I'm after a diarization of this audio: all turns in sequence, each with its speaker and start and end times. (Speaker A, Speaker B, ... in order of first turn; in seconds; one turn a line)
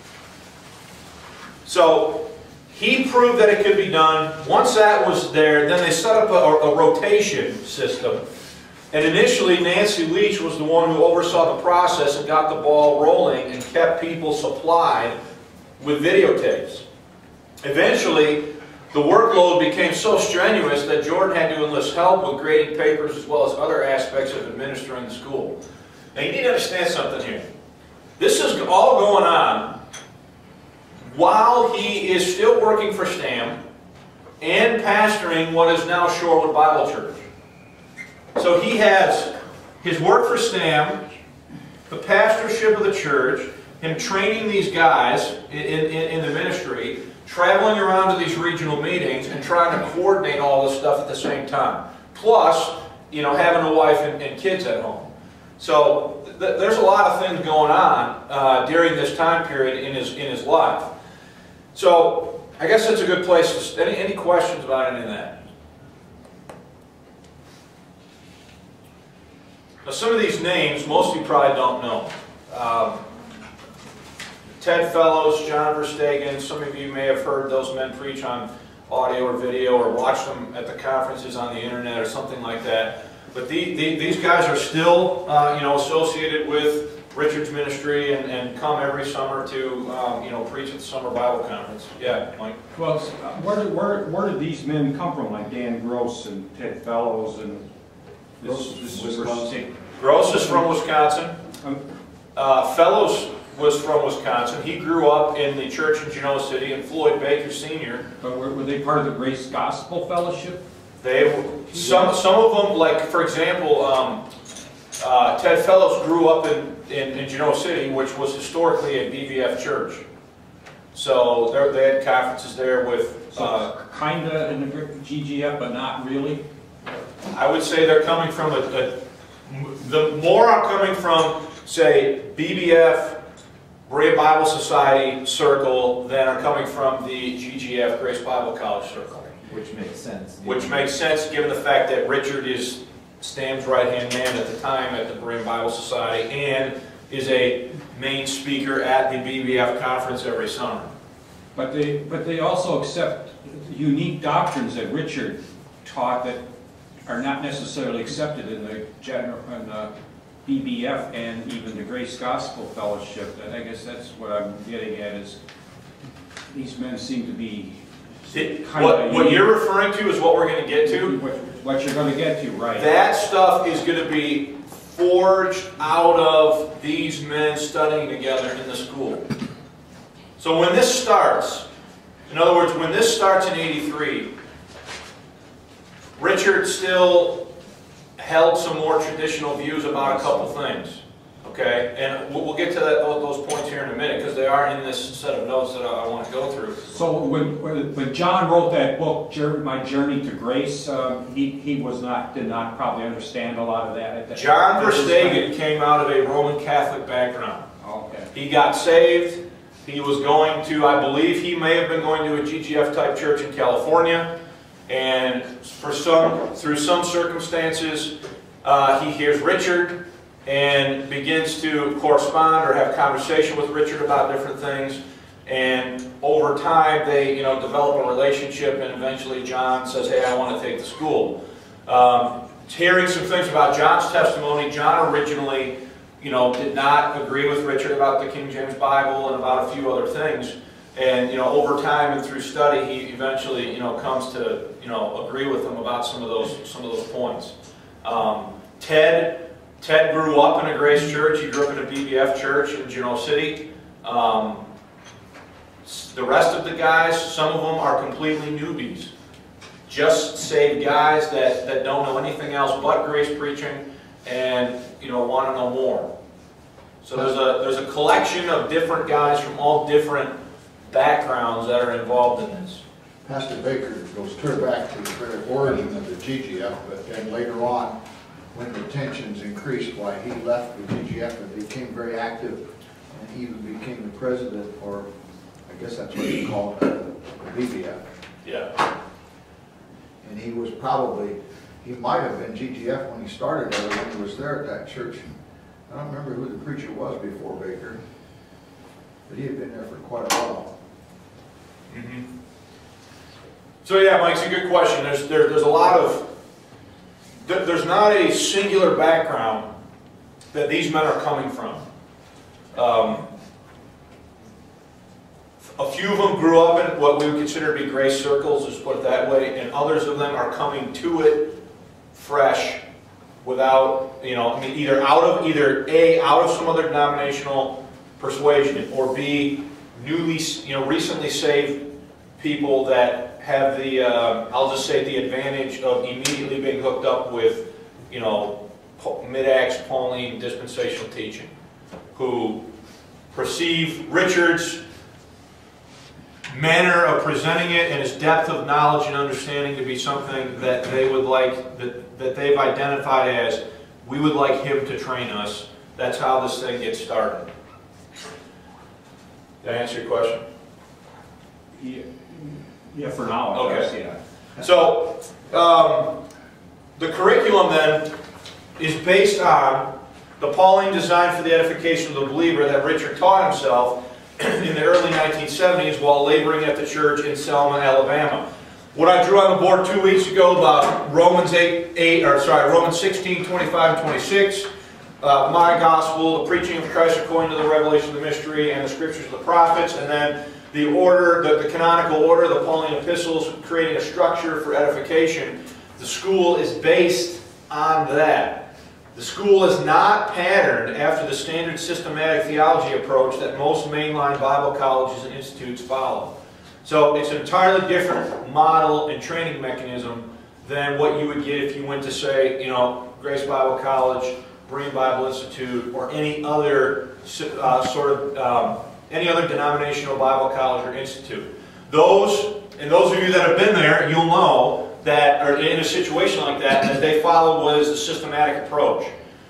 Speaker A: 1.6-8.2
Speaker A: 8.9-15.2
Speaker A: 15.8-16.8
Speaker A: 17.6-25.6
Speaker A: 26.1-27.4
Speaker A: 28.2-29.8
Speaker A: 31.0-33.6
Speaker A: 34.4-37.2
Speaker A: 38.3-41.0
Speaker A: 41.9-60.9
Speaker A: 61.7-65.4
Speaker A: 69.8-73.0
Speaker A: 74.6-92.6
Speaker B: 92.7-97.6
Speaker B: 98.4-99.7
Speaker C: 98.4-99.6
Speaker A: 100.0-101.3
Speaker B: 100.2-100.6
Speaker A: 102.3-108.0
Speaker B: 108.2-110.6
Speaker A: 111.0-114.2
Speaker B: 111.7-112.1
Speaker A: 115.0-120.0
Speaker A: 120.9-123.7
Speaker B: 123.3-126.4
Speaker A: 127.3-133.2
Speaker A: 133.9-139.3
Speaker C: 139.5-140.9
Speaker A: 140.4-150.9
Speaker B: 151.5-156.4
Speaker B: 157.1-159.9
Speaker B: 160.4-165.4
Speaker B: 166.5-169.5
Speaker A: 168.3-171.1
Speaker B: 170.8-172.9
Speaker A: 172.8-179.3
Speaker A: 180.4-181.7
Speaker A: 182.3-184.3
Speaker A: 186.2-187.5
Speaker A: 188.2-196.8
Speaker B: 196.9-205.5
Speaker A: 204.3-207.7
Speaker B: 207.8-208.3
Speaker A: 208.3-214.3
Speaker A: 214.9-254.6
Speaker A: 255.8-259.1
Speaker A: 259.9-266.1
Speaker A: 267.0-270.3
Speaker A: 270.9-272.8
Speaker D: 273.2-278.0
Speaker D: 278.5-285.1
Speaker D: 285.6-288.0
Speaker A: 288.4-288.7
Speaker D: 290.2-295.2
Speaker D: 295.9-298.0
Speaker D: 299.3-300.7
Speaker A: 301.9-302.2
Speaker A: 303.8-306.3
Speaker A: 307.4-309.7
Speaker A: 310.5-311.8
Speaker A: 312.7-313.3
Speaker A: 315.8-321.6
Speaker A: 322.1-322.8
Speaker A: 323.4-331.9
Speaker A: 332.4-341.5
Speaker A: 342.1-342.7
Speaker A: 343.3-344.8
Speaker A: 346.5-357.5
Speaker A: 359.6-360.4
Speaker B: 361.8-364.2
Speaker A: 363.5-363.9
Speaker A: 364.6-366.2
Speaker A: 367.0-368.1
Speaker A: 368.8-384.7
Speaker A: 385.2-429.1